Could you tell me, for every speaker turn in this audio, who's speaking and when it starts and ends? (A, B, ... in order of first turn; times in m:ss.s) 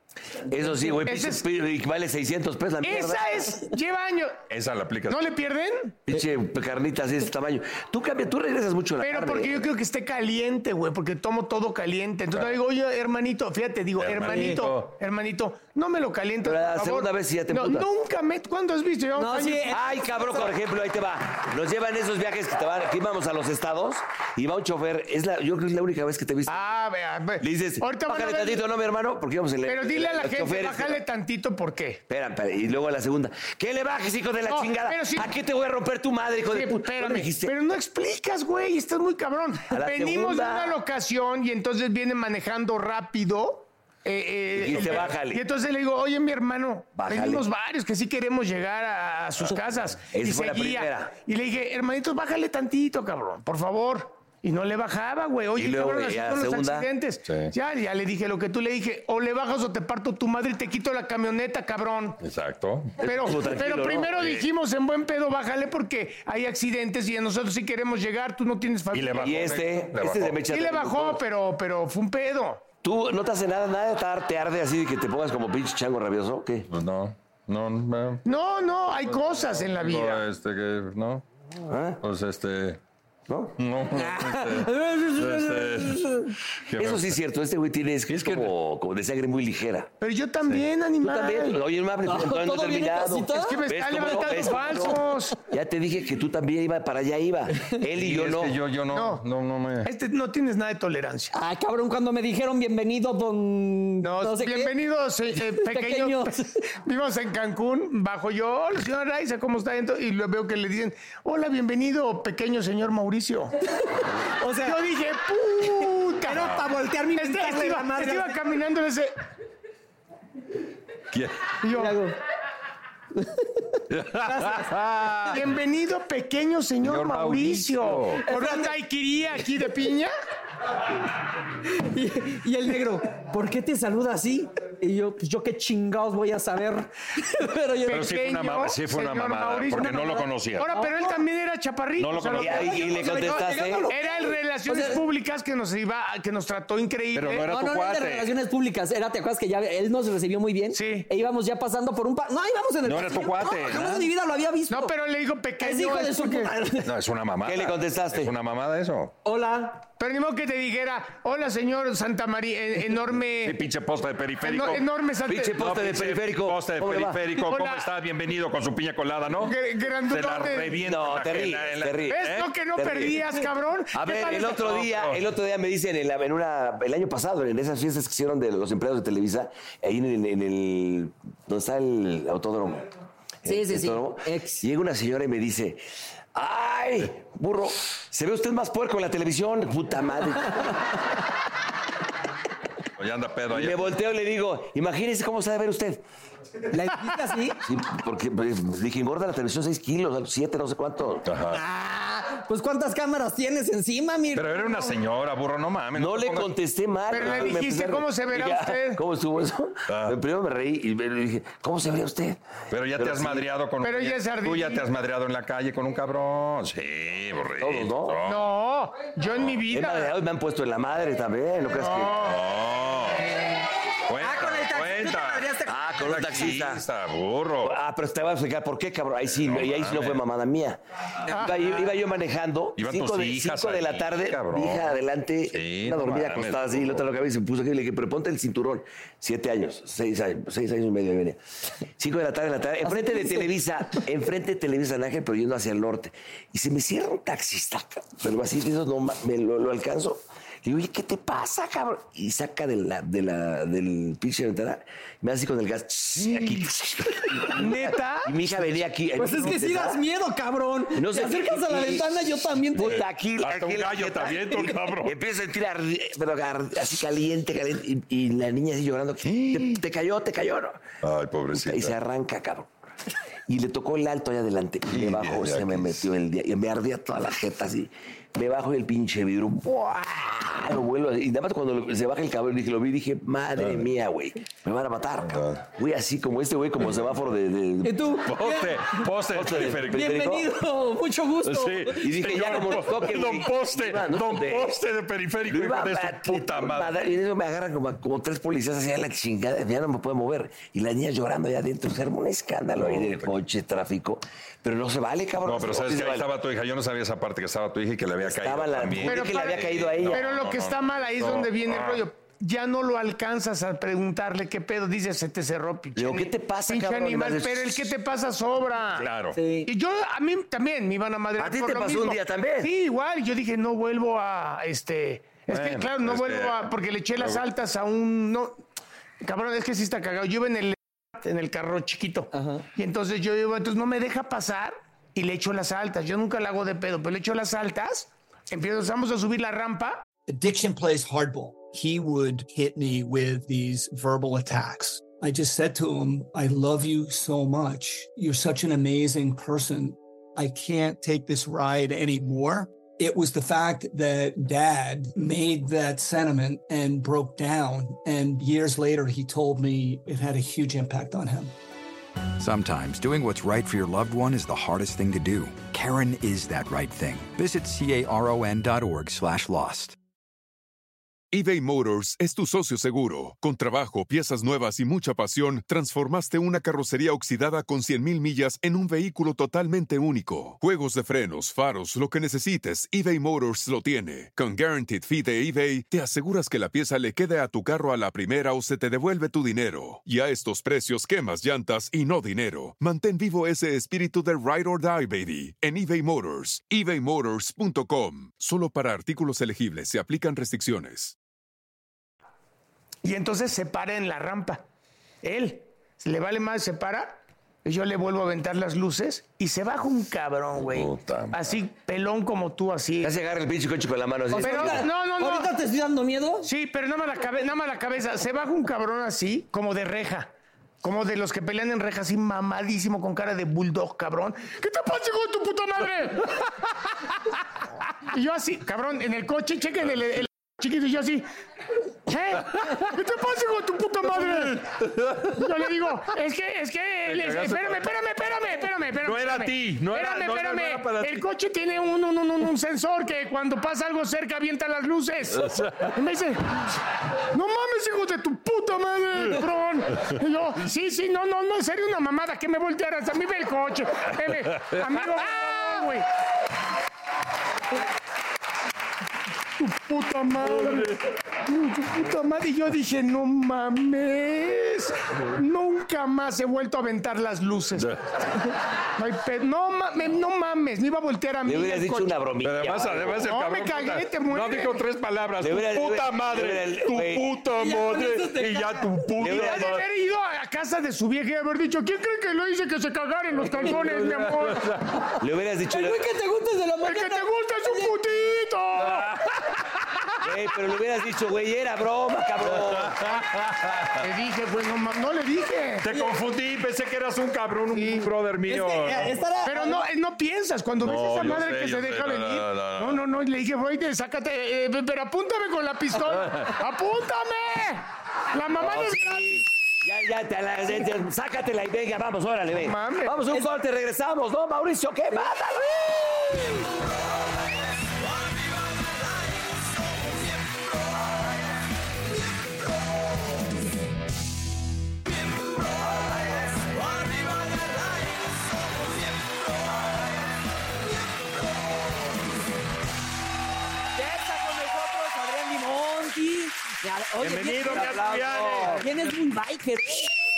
0:00.5-0:03.5 A
0:01.0-0:01.4 B
0:02.8-0:04.4 B
0:04.5-0:05.2 C
0:05.1-0:06.0 B
0:06.1-0:09.7 A
0:09.0-0:20.0 B
0:14.0-0:15.0 C
0:14.3-0:14.6 D
0:16.4-0:17.9 A
0:19.2-0:19.8 D
0:19.7-0:26.6 A
0:26.5-0:28.6 B
0:27.4-0:31.0 A
0:29.7-0:32.0 B
0:32.1-0:37.5 A
0:34.5-0:35.3 B
0:36.5-1:02.2 B
0:39.7-0:40.8 A
0:44.5-0:45.4 A
0:47.0-0:47.5 A
0:50.1-0:51.2 A
0:55.6-0:56.9 A
0:57.2-0:57.5 C
1:02.2-1:03.0 C
1:03.0-1:09.3 B
1:03.0-1:04.5 A
1:08.9-1:10.4 C
1:09.1-1:11.2 A
1:10.5-1:12.6 B
1:12.8-1:16.7 A
1:16.7-1:18.2 C
1:18.3-1:20.2 B
1:19.3-1:21.2 C
1:21.6-1:22.0 A
1:22.0-1:22.8 C
1:23.3-1:23.6 A
1:23.6-1:26.1 C
1:23.9-1:26.4 D
1:26.7-1:27.2 C
1:26.8-1:29.9 A
1:28.1-1:28.5 C
1:30.0-1:31.6 B
1:31.0-1:38.6 A
1:32.0-1:34.8 D
1:33.3-1:35.4 B
1:37.9-1:39.9 C
1:38.9-1:39.2 B
1:39.8-1:41.3 B
1:41.3-1:44.7 D
1:44.0-1:53.5 B
1:45.4-1:46.6 D
1:54.4-1:54.8 D
1:54.6-1:56.4 B
1:56.2-1:58.4 D
1:56.3-1:56.7 C
1:57.2-1:59.1 B
2:01.1-2:01.5 C
2:01.6-2:02.0 B
2:01.7-2:02.2 D
2:03.2-2:04.7 D
2:03.9-2:05.4 C
2:05.3-2:10.1 B
2:06.8-2:08.2 C
2:08.3-2:08.8 D
2:11.7-2:18.0 D
2:17.9-2:22.8 B
2:17.9-2:20.7 C
2:20.7-2:21.2 D
2:22.0-2:22.9 C
2:22.4-2:23.9 A
2:22.5-2:25.0 D
2:23.9-2:27.5 B
2:27.1-2:28.3 C
2:27.4-2:34.9 D
2:30.7-2:31.1 B
2:32.8-2:34.1 C
2:34.7-2:36.5 B
2:35.6-2:36.9 D
2:36.8-2:39.1 C
2:37.4-2:38.3 A
2:39.2-2:39.8 D
2:40.0-2:43.6 B
2:43.4-2:44.8 C
2:44.4-2:45.6 B
2:45.3-2:47.2 A
2:45.5-2:52.5 C
2:47.5-2:47.9 B
2:49.4-2:50.8 B
2:50.8-2:53.2 A
2:52.1-2:54.8 B
2:53.9-3:02.9 A
2:54.7-2:55.2 C
3:03.4-3:05.8 A
3:03.5-3:04.6 D
3:06.3-3:11.0 A
3:13.0-3:13.9 C
3:13.5-3:16.0 A
3:16.7-3:17.6 D
3:17.6-3:21.3 A
3:21.2-3:21.6 C
3:21.5-3:24.7 D
3:24.3-3:26.5 C
3:26.0-3:32.4 A
3:27.1-3:29.0 B
3:27.2-3:27.6 C
3:29.9-3:30.2 C
3:32.7-3:38.4 C
3:33.0-3:33.5 A
3:33.8-3:34.9 B
3:37.6-3:38.2 A
3:38.3-3:40.1 B
3:39.4-3:39.6 C
3:39.7-3:42.2 A
3:41.7-3:42.4 B
3:42.2-3:43.4 C
3:44.1-3:47.8 C
3:44.2-3:45.9 D
3:45.7-3:46.8 A
3:47.6-4:01.4 A
3:49.3-3:50.2 C
3:51.3-3:51.6 B
3:52.8-3:54.9 C
3:55.5-3:57.0 C
4:02.0-4:20.0 A
4:02.8-4:04.0 D
4:16.3-4:16.6 C
4:17.5-4:18.3 B
4:19.2-4:23.0 D
4:20.9-4:30.8 A
4:22.8-4:25.1 C
4:29.2-4:29.8 C
4:31.0-4:32.0 C
4:31.5-4:32.7 A
4:33.5-4:48.1 A
4:34.9-4:36.1 C
4:43.6-4:43.8 C
4:45.2-4:45.6 C
4:47.8-4:49.1 D
4:48.2-4:50.1 C
4:49.3-4:50.5 A
4:49.9-4:52.1 D
4:51.4-4:56.9 C
4:52.0-4:54.8 A
4:55.5-5:06.3 A
5:02.8-5:03.3 C
5:05.4-5:12.0 C
5:08.2-5:10.2 A
5:09.1-5:19.1 B
5:16.0-5:17.9 A
5:19.0-5:19.4 C
5:19.3-5:19.7 D
5:19.7-5:28.6 B
5:21.4-5:22.7 A
5:25.5-5:27.4 C
5:29.2-5:40.0 B
5:32.3-5:32.6 D
5:40.3-6:01.6 E
6:02.4-6:10.0 F
6:11.3-6:41.2 G
6:43.0-6:44.6 B
6:45.2-6:53.1 B
6:50.6-6:51.4 C
6:53.0-6:54.9 A
6:54.3-6:56.5 D
6:54.4-6:55.5 B
6:56.4-7:00.3 B
7:00.8-7:06.5 B
7:08.1-7:11.2 B
7:12.1-7:14.6 B
7:14.0-7:15.5 C
7:15.3-7:26.6 B
7:17.1-7:17.9 C
7:19.0-7:21.2 C
7:25.4-7:25.9 C
7:27.3-7:36.1 B
7:39.6-7:47.9 B
7:40.4-7:41.0 C
7:49.0-7:52.1 B
7:51.4-7:53.3 A
7:52.4-7:59.9 C
7:53.2-7:54.8 B
7:55.4-7:57.3 A
7:57.5-7:59.0 D
7:59.2-7:59.8 A
7:59.2-8:04.6 B
8:03.5-8:05.0 C
8:05.2-8:06.0 A
8:05.7-8:07.9 D
8:06.8-8:09.1 B
8:08.9-8:09.1 C
8:10.2-8:13.1 A
8:12.5-8:14.1 C
8:14.0-8:15.9 B
8:15.8-8:19.2 C
8:17.7-8:18.1 B
8:18.5-8:19.8 D
8:19.4-8:29.4 B
8:20.8-8:23.0 C
8:26.1-8:26.6 C
8:28.6-8:36.6 A
8:32.6-8:33.2 B
8:54.0-9:00.2 D
8:57.2-8:58.9 C
8:57.6-8:58.9 A